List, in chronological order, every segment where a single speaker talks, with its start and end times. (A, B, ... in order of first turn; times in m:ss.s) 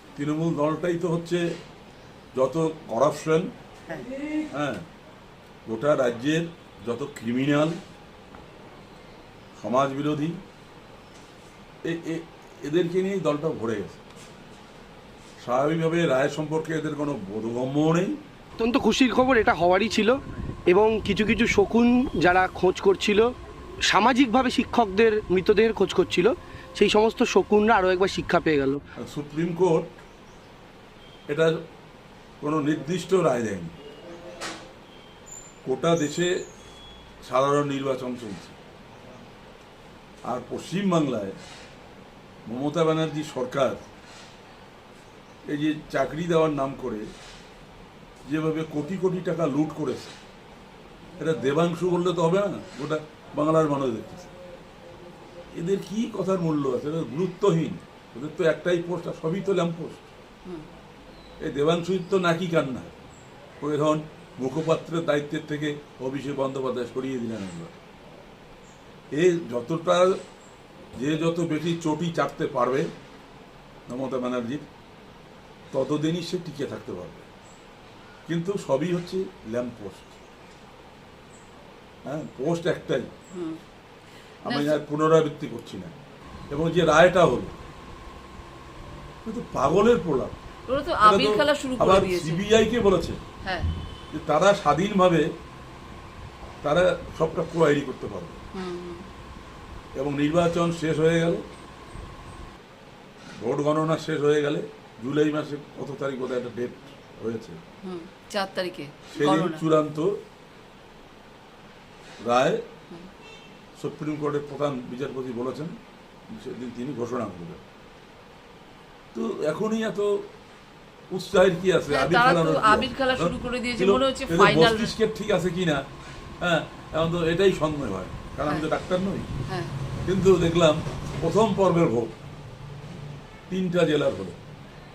0:00.2-0:01.4 A
0:02.3-0:03.5 A
0:04.5-0:04.8 A
0:05.7-0:07.8 A
0:09.6-0:10.4 A
0:11.8-0:14.0 A
0:15.4-0:18.2 A
0:18.6-0:23.3 B
0:23.9-0:28.8 B
0:29.0-0:30.0 A
0:31.3-0:31.5 A
0:32.4-0:33.8 A
0:35.6-0:36.3 A
0:37.3-0:38.6 A
0:40.3-0:41.4 A
0:42.5-0:43.8 A
0:45.5-0:47.1 A
0:48.3-0:50.2 A
0:51.2-0:54.3 A
0:55.5-1:00.1 A
1:01.4-1:02.9 A
1:03.6-1:07.7 A
1:09.1-1:10.2 A
1:11.0-1:12.9 A
1:13.9-1:14.7 A
1:15.7-1:17.3 A
1:18.3-1:20.2 A
1:22.1-1:23.1 A
1:23.3-1:23.6 C
1:24.4-1:25.9 A
1:24.5-1:24.8 C
1:26.5-1:27.6 A
1:29.2-1:30.3 A
1:30.7-1:32.4 C
1:31.0-1:33.2 A
1:33.4-1:33.7 C
1:34.1-1:35.3 A
1:36.6-1:38.4 A
1:38.5-1:39.1 C
1:40.0-1:41.4 A
1:43.4-1:47.6 A
1:47.8-1:49.6 C
1:49.2-1:50.2 A
1:52.2-1:52.6 A
1:53.8-1:55.8 A
1:56.3-1:57.6 A
1:59.1-2:00.3 A
2:01.1-2:05.8 A
2:01.9-2:05.0 C
2:06.4-2:09.3 A
2:09.5-2:09.7 C
2:10.1-2:12.1 A
2:13.5-2:14.4 A